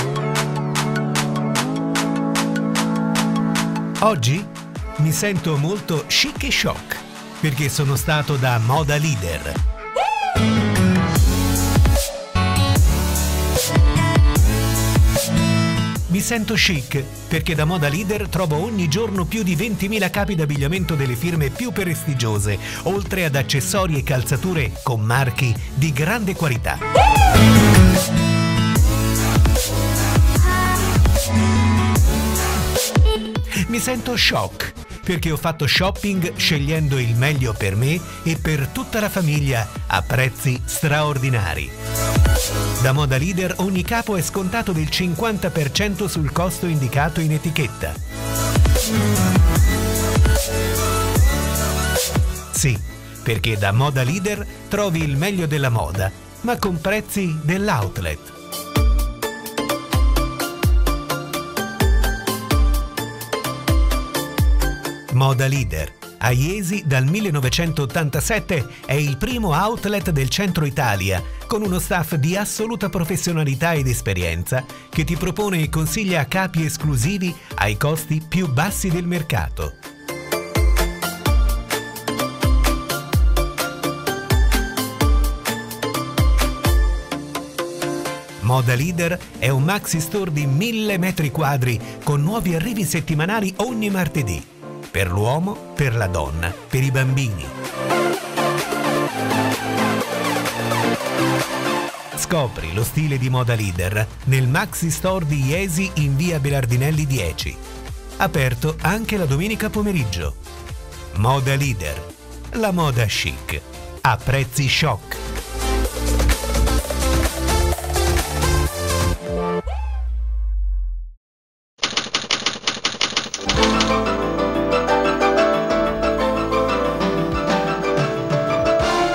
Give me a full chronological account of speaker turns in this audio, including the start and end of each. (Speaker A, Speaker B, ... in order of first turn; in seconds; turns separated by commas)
Speaker A: 4.0-9.6, Speaker A: 16.1-26.8, Speaker A: 33.6-41.7, Speaker A: 42.8-48.0, Speaker A: 52.5-58.3, Speaker A: 65.1-79.8, Speaker A: 88.4-97.5, Speaker A: 102.2-107.6, Speaker A: 108.2-110.4, Speaker A: 111.1-115.2